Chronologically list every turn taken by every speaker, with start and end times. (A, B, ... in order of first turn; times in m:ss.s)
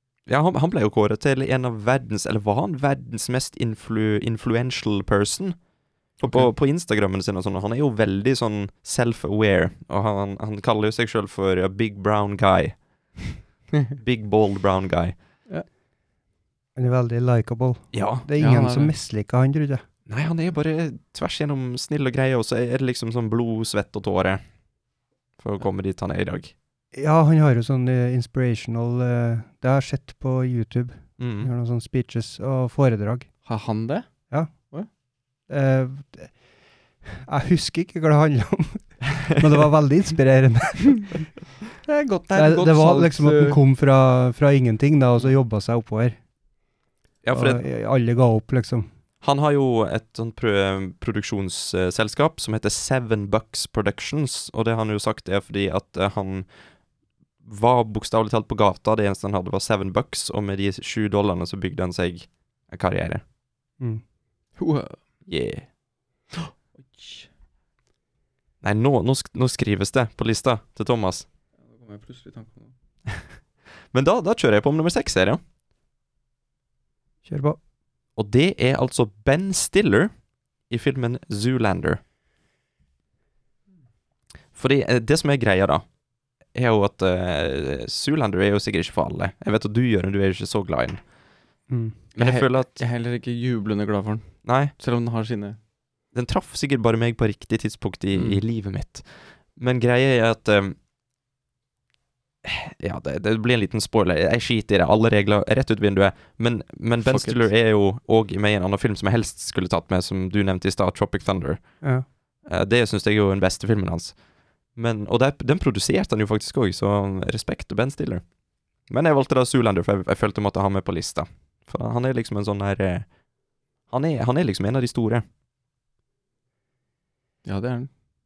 0:00.3-0:05.6 A
0:06.2-0:12.8 A
0:06.2-0:06.5 B
0:14.0-0:15.2 A
0:16.8-0:19.8 C
0:17.9-0:18.3 A
0:18.4-0:18.9 B
0:20.1-0:24.4 A
0:25.4-0:26.5 A
0:26.9-0:33.3 C
0:31.2-0:31.5 A
0:33.4-0:34.9 B
0:35.5-0:36.4 C
0:37.1-0:41.2 C
0:41.8-0:43.6 B
0:42.3-0:46.2 C
0:47.2-0:47.6 A
0:47.3-0:48.9 C
0:49.2-0:56.5 A
0:57.4-1:03.2 A
1:04.6-1:05.0 B
1:05.3-1:05.7 A
1:06.3-1:07.3 B
1:08.6-1:11.2 A
1:11.6-1:12.7 B
1:13.9-1:15.4 A
1:17.2-1:17.6 C
1:18.2-1:20.1 A
1:20.7-1:22.0 A
1:24.5-1:25.8 A
1:26.5-1:31.0 A
1:31.7-1:32.0 C
1:32.1-1:35.6 B
1:32.2-1:32.8 A
1:34.4-1:34.7 A
1:36.1-1:40.8 A
1:38.1-1:38.4 B
1:42.4-1:51.9 A
1:47.0-1:47.5 B
1:52.4-1:54.2 A
1:54.7-1:58.2 A
1:58.9-2:03.1 A
2:03.8-2:05.2 A
2:07.4-2:07.9 B